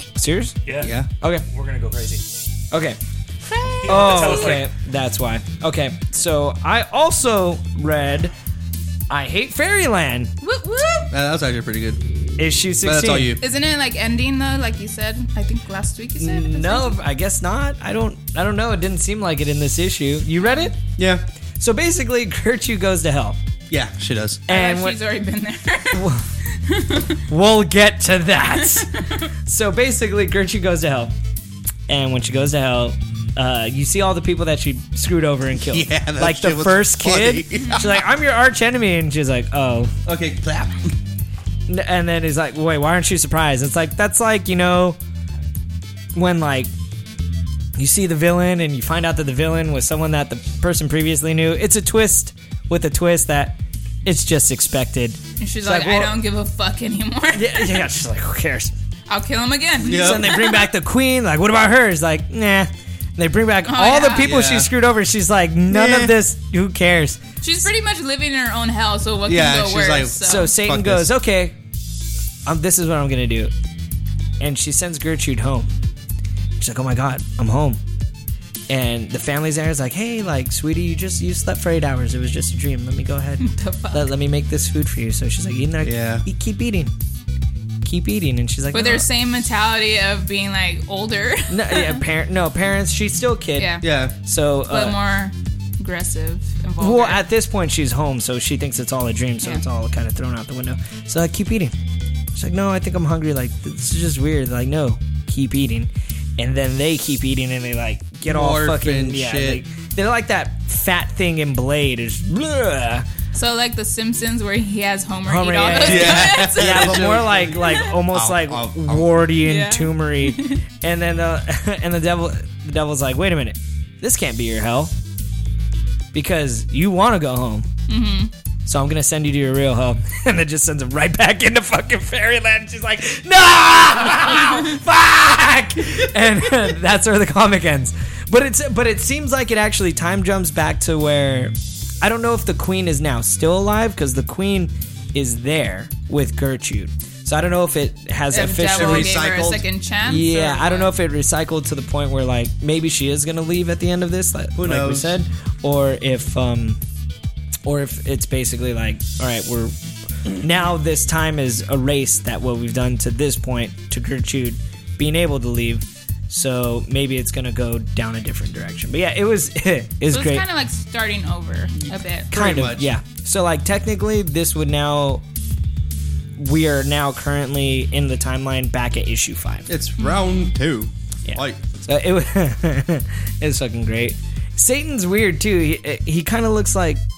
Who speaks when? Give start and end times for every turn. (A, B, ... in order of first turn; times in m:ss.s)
0:00.2-0:00.6 A
0:00.6-0:00.9 B
0:00.8-0:01.1 C
0:01.4-0:02.2 B
0:02.7-0:03.0 A
0:03.6-0:08.3 A
0:03.8-0:04.7 B
0:09.1-0:10.3 A
0:10.4-0:11.1 D
0:11.1-0:12.0 C
0:12.4-0:13.4 A
0:12.8-0:13.4 C
0:13.4-0:17.0 D
0:16.2-0:20.8 A
0:20.4-0:20.7 D
0:21.0-0:21.2 C
0:21.6-0:23.4 A
0:23.7-0:24.5 C
0:24.5-0:25.0 A
0:24.5-0:27.2 D
0:25.9-0:26.2 A
0:27.3-0:31.1 A
0:28.5-0:29.3 D
0:31.9-0:39.9 A
0:35.7-0:38.0 C
0:37.5-0:38.0 D
0:40.0-0:40.9 C
0:41.7-0:45.0 A
0:46.1-0:46.7 A
0:47.8-0:56.1 A
0:55.4-0:57.8 D
0:57.3-0:58.7 A
0:59.1-1:00.6 D
0:59.8-1:00.4 C
0:59.9-1:07.2 A
1:03.7-1:04.3 D
1:04.2-1:04.7 C
1:05.7-1:06.1 C
1:07.4-1:10.5 D
1:09.2-1:11.1 C
1:10.2-1:11.6 A
1:12.4-1:13.5 A
1:14.4-1:15.7 A
1:16.6-1:17.8 A
1:18.7-1:26.9 A
1:23.4-1:24.1 D
1:25.8-1:26.2 C
1:27.8-1:29.0 A
1:28.7-1:32.0 D
1:31.5-1:35.0 A
1:33.6-1:33.8 D
1:33.8-1:34.1 C
1:34.7-1:37.2 D
1:36.8-1:41.7 A
1:42.3-1:53.1 A
1:48.2-1:49.6 C
1:53.3-1:57.0 D
1:55.2-2:04.9 A
1:55.8-1:59.2 C
1:57.6-1:57.9 D
1:59.4-2:00.6 D
2:06.1-2:07.7 A
2:07.9-2:08.3 D
2:08.6-2:29.1 A
2:28.3-2:30.9 D
2:28.7-2:29.6 C
2:30.0-2:36.8 A
2:34.6-2:35.1 C
2:37.6-2:39.7 A
2:40.3-2:50.4 A
2:50.1-2:52.3 D
2:52.3-2:52.9 C
2:52.3-2:55.2 A
2:56.4-2:59.7 A
2:59.7-3:01.8 C
3:00.0-3:00.4 D
3:01.3-3:07.0 A